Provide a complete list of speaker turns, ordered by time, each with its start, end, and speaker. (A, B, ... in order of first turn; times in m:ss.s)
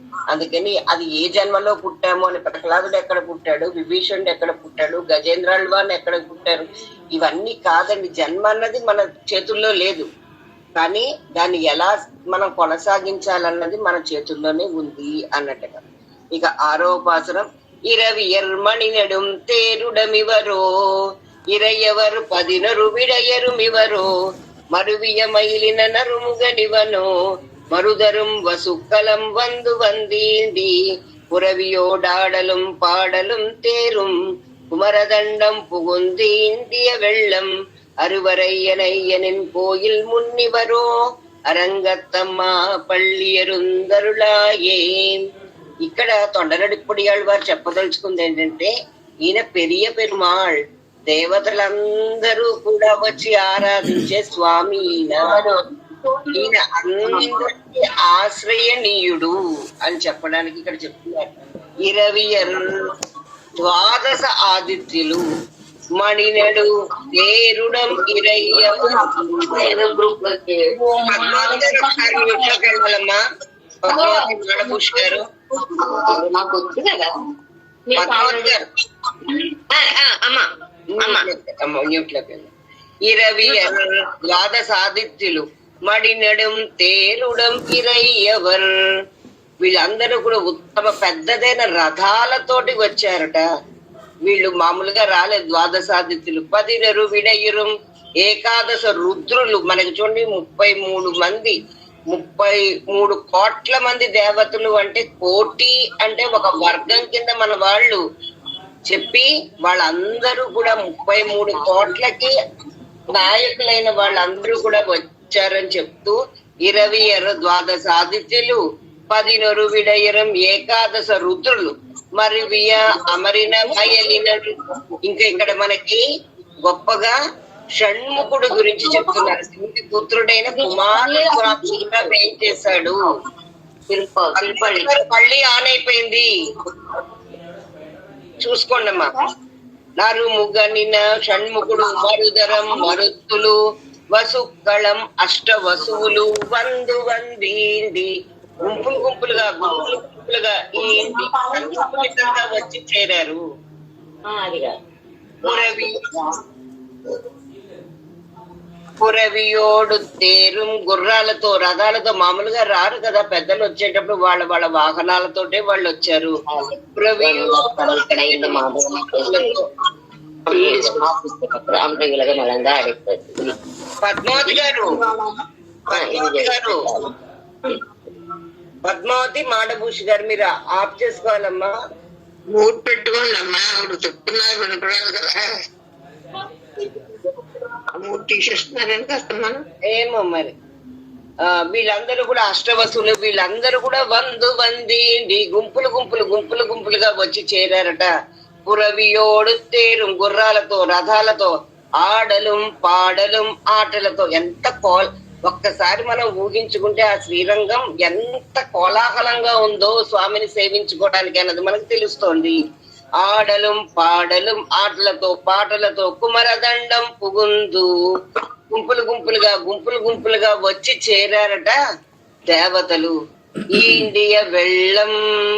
0:00.3-0:10.1 A
0:10.8-0:15.8 A
0:16.3-0:20.6 A
0:21.5-0:24.1 A
0:24.7-0:27.1 A
0:27.7-0:30.7 A
0:31.3-0:34.1 A
0:34.7-0:37.5 A
0:38.0-0:40.9 A
0:41.5-0:45.2 A
0:45.8-0:48.7 A
0:49.3-0:50.6 A
0:51.1-0:55.3 A
0:56.3-1:01.3 A
1:01.9-1:02.9 A
1:03.6-1:05.2 A
1:06.0-1:09.1 A
1:08.5-1:11.9 B
1:11.1-1:13.2 A
1:13.8-1:15.2 A
1:13.9-1:14.9 B
1:15.6-1:17.1 B
1:17.9-1:18.5 B
1:18.0-1:18.6 A
1:19.3-1:20.4 B
1:21.0-1:22.5 A
1:21.0-1:21.3 B
1:23.1-1:28.7 A
1:23.4-1:23.7 B
1:29.6-1:33.4 A
1:34.2-1:41.5 A
1:42.1-1:48.0 A
1:48.9-1:52.4 A
1:51.4-1:51.9 B
1:53.1-1:58.6 A
1:59.1-2:04.5 A
2:03.7-2:04.0 B
2:05.0-2:06.0 A
2:06.7-2:07.1 A
2:07.8-2:13.0 A
2:08.4-2:09.2 B
2:10.5-2:12.1 B
2:13.9-2:14.9 B
2:14.3-2:16.2 A
2:18.4-2:19.1 A
2:20.0-2:23.6 A
2:22.6-2:22.9 B
2:24.1-2:28.1 A
2:25.8-2:26.1 B
2:28.6-2:33.4 A
2:30.9-2:32.5 B
2:34.3-2:34.7 B
2:35.4-2:36.4 B
2:35.4-2:36.0 A
2:39.0-2:46.4 A
2:46.5-2:49.5 B
2:47.0-2:49.6 A
2:50.5-2:53.5 B
2:54.0-2:55.0 A
2:54.4-2:55.2 B
2:55.9-2:56.8 A
2:55.9-2:57.1 B
2:58.8-3:01.7 A
3:02.5-3:05.2 C
3:08.0-3:09.6 B
3:09.9-3:10.5 A
3:11.7-3:18.1 A
3:18.6-3:32.6 A
3:33.2-3:37.9 A
3:38.7-3:41.8 A
3:42.5-3:43.1 A
3:43.7-3:45.1 A